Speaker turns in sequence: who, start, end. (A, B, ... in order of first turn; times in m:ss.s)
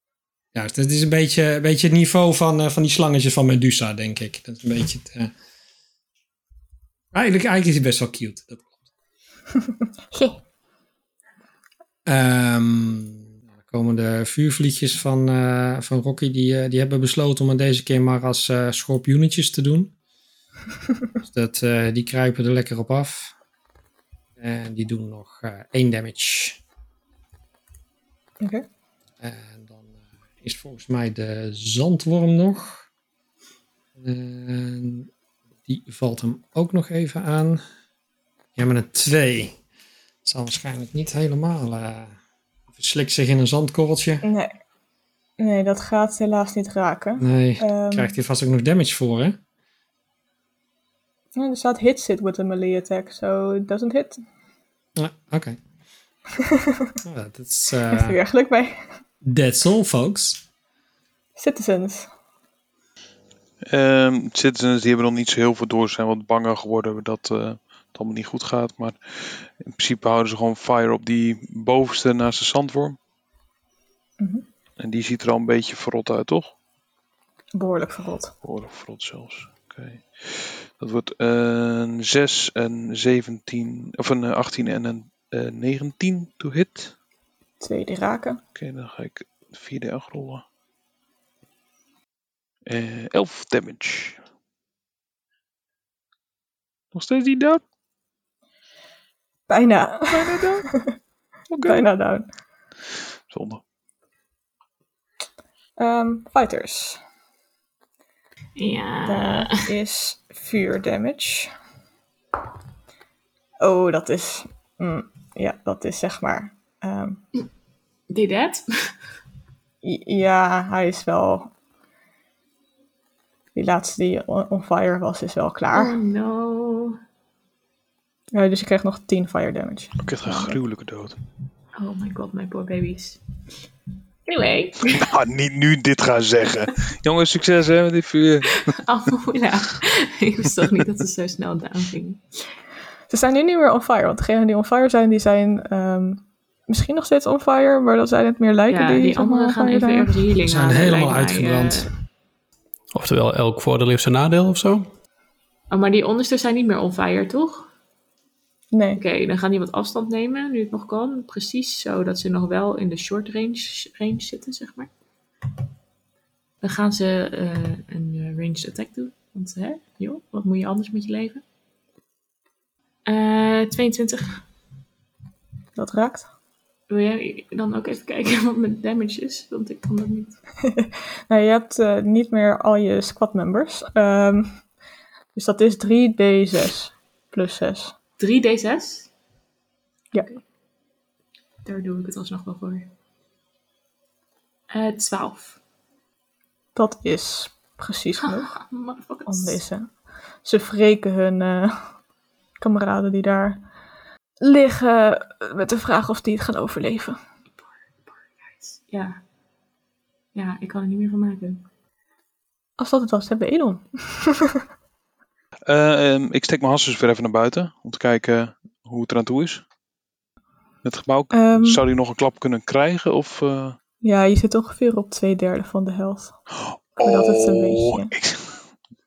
0:00.5-0:05.3 A
0:07.1-0:08.7 A
0:10.1-0:10.4 B
0:12.0-0:19.9 A
0:21.2-0:23.3 A
0:24.4-0:26.6 A
0:29.2-0:29.8 A
0:30.4-0:32.8 A
0:34.0-0:35.1 A
0:35.6-0:37.6 A
0:38.6-0:39.6 A
0:40.2-0:42.1 A
0:42.7-0:44.2 A
0:44.2-0:44.5 B
0:45.4-0:48.1 B
0:47.2-0:49.4 A
0:51.4-0:54.2 B
0:55.0-0:55.6 A
0:57.0-0:58.2 A
0:57.9-0:58.8 B
0:59.2-1:00.4 A
1:01.4-1:02.1 B
1:03.7-1:13.0 C
1:14.2-1:14.4 B
1:14.8-1:16.5 C
1:17.5-1:18.3 B
1:18.4-1:26.9 C
1:27.6-1:28.4 B
1:28.5-1:30.4 C
1:32.6-1:34.2 C
1:36.9-1:37.6 C
1:39.5-1:40.9 B
1:40.1-1:40.6 C
1:41.5-1:41.9 C
1:41.6-1:42.3 B
1:43.3-1:43.6 C
1:45.8-1:47.0 B
1:48.6-1:49.6 D
1:49.0-1:51.5 B
1:53.6-1:57.2 B
1:58.1-1:58.9 D
1:59.8-2:01.5 B
2:03.5-2:06.0 B
2:05.7-2:07.0 D
2:08.3-2:10.6 B
2:10.0-2:11.2 C
2:11.8-2:13.2 D
2:14.2-2:15.0 D
2:14.9-2:18.6 C
2:18.6-2:22.5 D
2:23.1-2:30.1 B
2:28.7-2:31.9 D
2:30.4-2:31.9 A
2:32.9-2:34.9 E
2:35.7-2:37.7 D
2:38.7-2:39.0 B
2:39.0-2:44.9 D
2:46.6-2:51.4 D
2:53.0-2:54.4 D
2:55.8-2:56.3 B
2:56.9-3:00.4 D
3:00.7-3:04.6 B
3:05.3-3:07.9 B
3:08.2-3:09.1 D
3:11.6-3:12.9 D
3:14.7-3:15.6 D
3:16.8-3:18.5 B
3:18.5-3:19.6 D
3:19.3-3:19.9 B
3:20.4-3:21.8 B
3:22.6-3:23.6 B
3:24.4-3:27.2 B
3:28.6-3:29.2 D
3:30.3-3:31.6 D
3:32.8-3:34.6 B
3:35.7-3:39.6 C
3:40.8-3:43.8 C
3:41.3-3:41.8 B
3:44.0-3:46.4 B
3:47.0-3:48.6 C
3:47.0-3:48.1 B